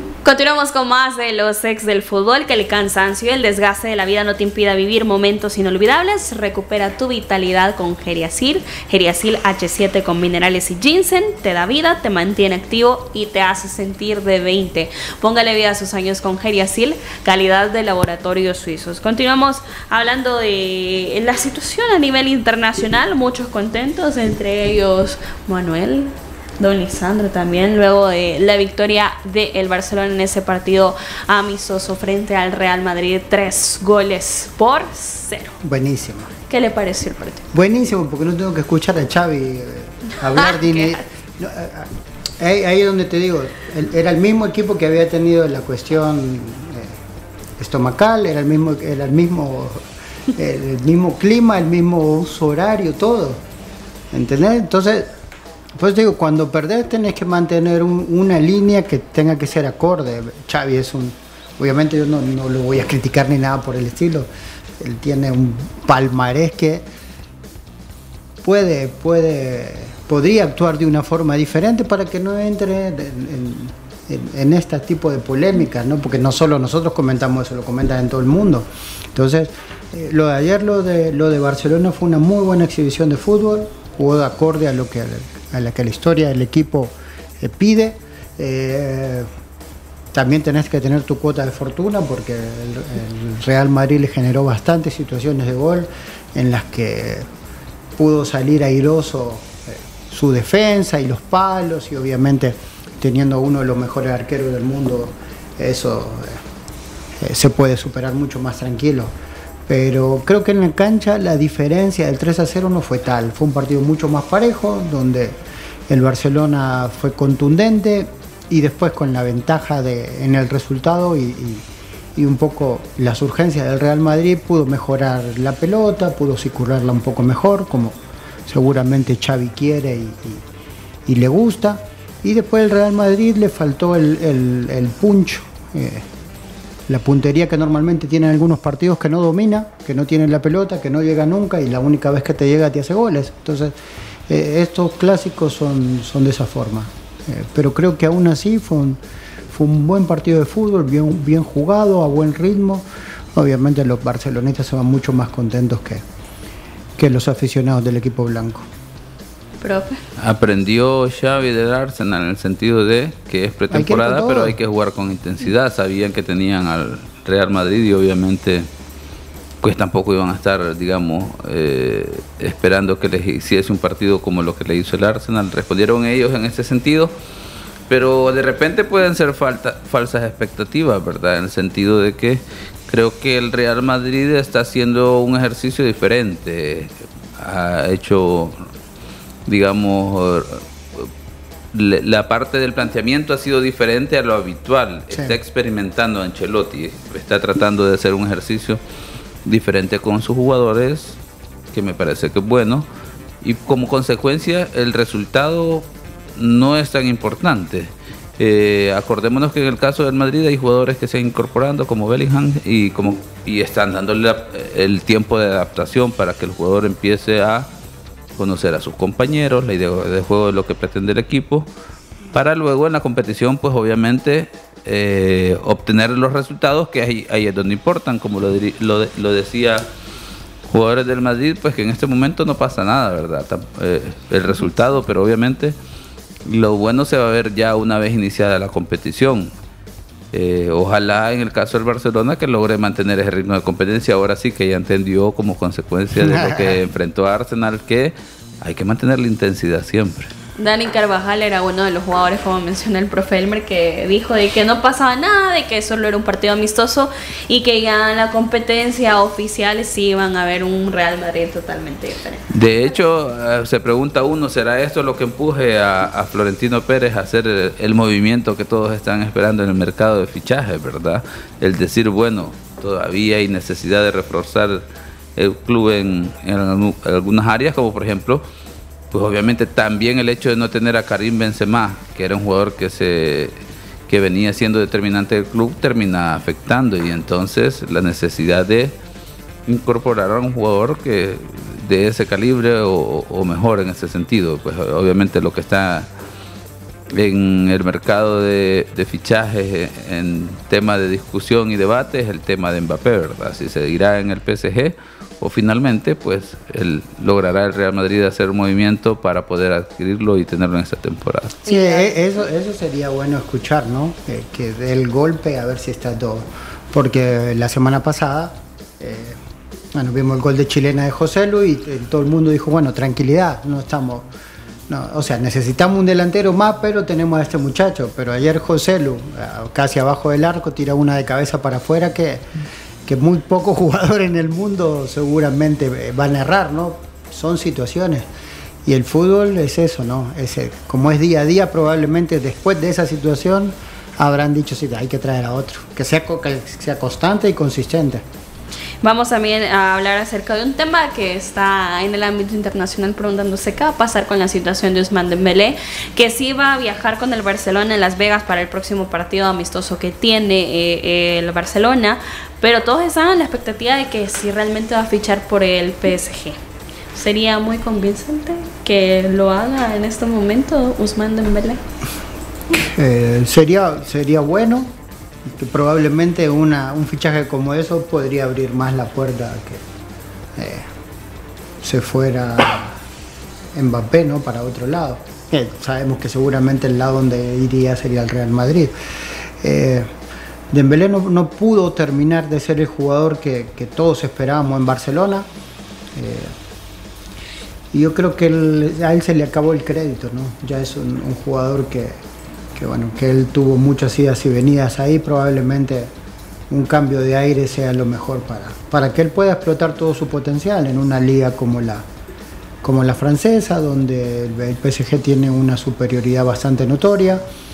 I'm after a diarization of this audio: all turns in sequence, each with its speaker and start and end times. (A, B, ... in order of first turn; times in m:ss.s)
0:00.2-0:35.5 A
0:35.6-0:36.3 B
0:36.5-0:37.4 A
0:37.5-0:47.0 B
0:40.4-0:40.9 A
0:47.6-0:49.8 B
0:50.4-0:53.4 B
0:54.1-0:55.1 B
0:55.8-1:04.3 B
1:04.8-1:06.8 B
1:08.4-1:29.3 B
1:30.1-1:37.3 B
1:38.0-1:46.4 B
1:47.2-1:49.1 B
1:49.7-2:01.6 B
2:02.2-2:10.4 B
2:11.1-2:16.0 B
2:16.9-2:23.8 B
2:24.3-2:36.0 B
2:37.0-2:38.6 B
2:39.6-2:40.0 A
2:40.2-2:48.7 C
2:43.7-2:44.6 B
2:49.6-2:57.1 C
2:57.9-3:08.7 C
3:09.5-3:11.1 C
3:11.7-3:18.8 C
3:15.1-3:15.4 B
3:19.4-3:21.2 C
3:21.7-3:22.9 C
3:23.4-3:37.7 C
3:38.4-3:41.7 C
3:42.3-3:49.8 C
3:50.7-3:55.8 C
3:56.4-3:59.5 C
4:00.3-4:10.3 C
4:06.1-4:06.8 B
4:10.6-4:22.5 A
4:22.5-4:38.4 C
4:39.1-4:43.6 C
4:44.1-4:48.9 C
4:49.7-4:56.1 C
4:57.1-5:11.5 C
5:11.6-5:19.4 B
5:11.6-5:12.2 A
5:19.9-5:24.3 B
5:24.9-5:32.4 B
5:33.1-5:38.3 B
5:38.8-5:48.2 B
5:49.0-6:06.6 A
6:07.1-6:11.8 A
6:12.7-6:14.9 B
6:15.5-6:19.8 B
6:20.6-6:20.9 B
6:21.8-6:23.0 B
6:23.7-6:28.9 B
6:29.6-6:30.1 B
6:30.7-6:35.5 B
6:36.1-6:36.5 B
6:37.9-6:42.2 B
6:42.8-6:46.1 B
6:46.7-6:52.0 B
6:52.8-6:57.4 B